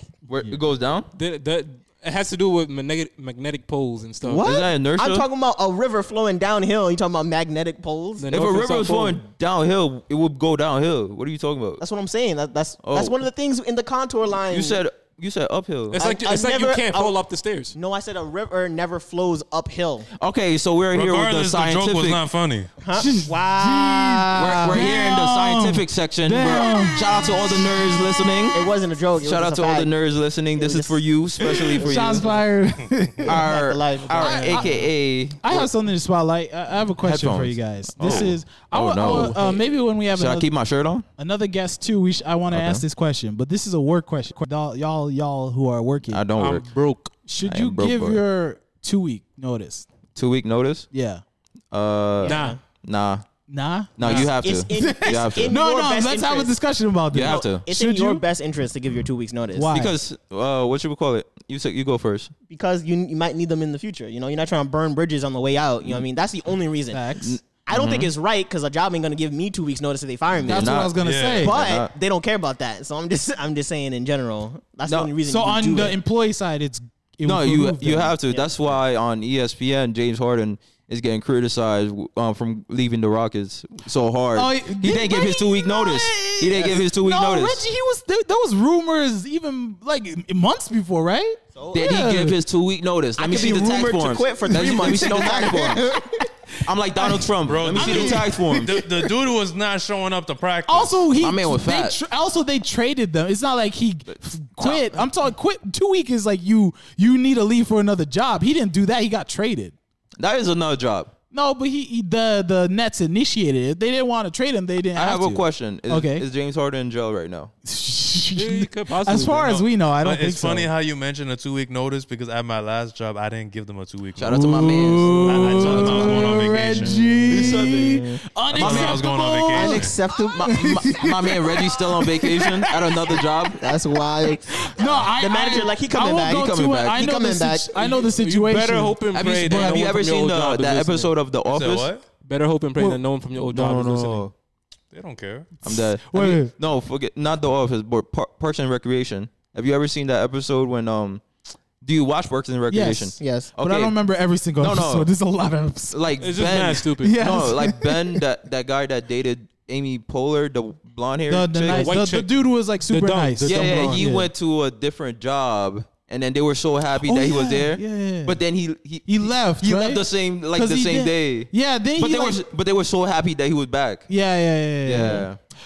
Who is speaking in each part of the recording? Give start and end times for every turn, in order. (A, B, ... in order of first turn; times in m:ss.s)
0:00.3-0:01.1 A
0:01.1-0:04.4 B
0:04.2-0:08.3 C
0:04.4-0:05.3 A
0:08.2-0:09.2 B
0:08.3-0:11.8 A
0:11.8-0:14.8 C
0:12.8-0:13.2 A
0:14.5-0:16.0 A
0:15.9-0:17.8 B
0:16.0-0:17.1 C
0:17.7-0:20.1 C
0:20.2-0:22.2 A
0:20.9-0:22.7 D
0:22.8-0:24.9 C
0:22.9-0:27.8 E
0:24.4-0:28.6 A
0:28.5-0:29.9 C
0:29.2-0:32.4 A
0:30.5-0:31.9 C
0:31.5-0:33.4 E
0:33.2-0:35.7 A
0:33.2-0:34.8 C
0:34.2-0:34.8 E
0:35.4-0:40.5 E
0:37.0-0:39.5 A
0:38.0-0:38.3 D
0:39.0-0:39.6 B
0:40.1-0:41.0 A
0:41.2-0:46.2 E
0:42.5-0:42.8 A
0:46.1-0:46.6 A
0:46.4-0:47.1 B
0:47.3-0:49.9 E
0:47.4-0:48.2 A
0:50.1-0:50.9 A
0:50.9-0:51.2 E
0:51.7-0:53.2 A
0:52.2-0:52.6 C
0:52.2-0:52.6 B
0:53.5-0:58.2 E
0:54.0-0:55.6 A
0:54.0-0:56.5 C
0:57.1-0:57.6 A
0:57.2-0:59.7 C
0:59.5-0:59.9 E
0:59.7-1:02.3 A
1:02.5-1:10.8 C
1:06.9-1:07.3 E
1:07.2-1:08.1 A
1:10.4-1:11.9 A
1:10.4-1:11.6 E
1:11.0-1:11.5 D
1:11.4-1:16.0 C
1:14.8-1:15.1 A
1:15.2-1:18.1 E
1:17.2-1:27.6 A
1:18.3-1:18.5 C
1:24.3-1:32.4 E
1:31.5-1:32.0 C
1:31.7-1:35.9 A
1:33.2-1:36.2 C
1:34.5-1:36.2 E
1:36.6-1:38.8 A
1:37.0-1:39.0 E
1:37.4-1:41.1 D
1:40.7-1:49.7 E
1:41.2-1:42.0 A
1:44.1-1:45.0 A
1:50.2-1:51.1 A
1:51.3-1:56.2 E
1:54.9-1:57.5 A
1:57.6-2:00.7 E
1:58.4-1:59.6 B
2:00.0-2:07.7 D
2:04.2-2:06.3 A
2:04.2-2:13.2 E
2:07.3-2:09.0 A
2:07.4-2:08.2 C
2:08.5-2:10.0 D
2:09.5-2:10.5 C
2:10.2-2:13.8 A
2:13.6-2:18.1 C
2:14.5-2:19.0 E
2:16.2-2:17.1 A
2:18.1-2:21.1 B
2:19.1-2:21.9 A
2:21.5-2:22.0 D
2:22.2-2:24.3 B
2:23.5-2:24.3 A
2:24.9-2:25.6 D
2:25.6-2:26.5 E
2:25.6-2:31.2 A
2:31.8-2:34.0 A
2:32.7-2:36.0 E
2:33.2-2:33.5 C
2:34.6-2:35.1 A
2:35.9-2:41.9 A
2:36.2-2:37.4 B
2:37.0-2:38.2 E
2:41.3-2:44.3 E
2:41.7-2:44.0 B
2:43.4-2:54.1 A
2:47.0-2:48.4 E
2:49.0-2:52.4 E
2:54.1-2:55.3 E
2:54.8-2:55.4 A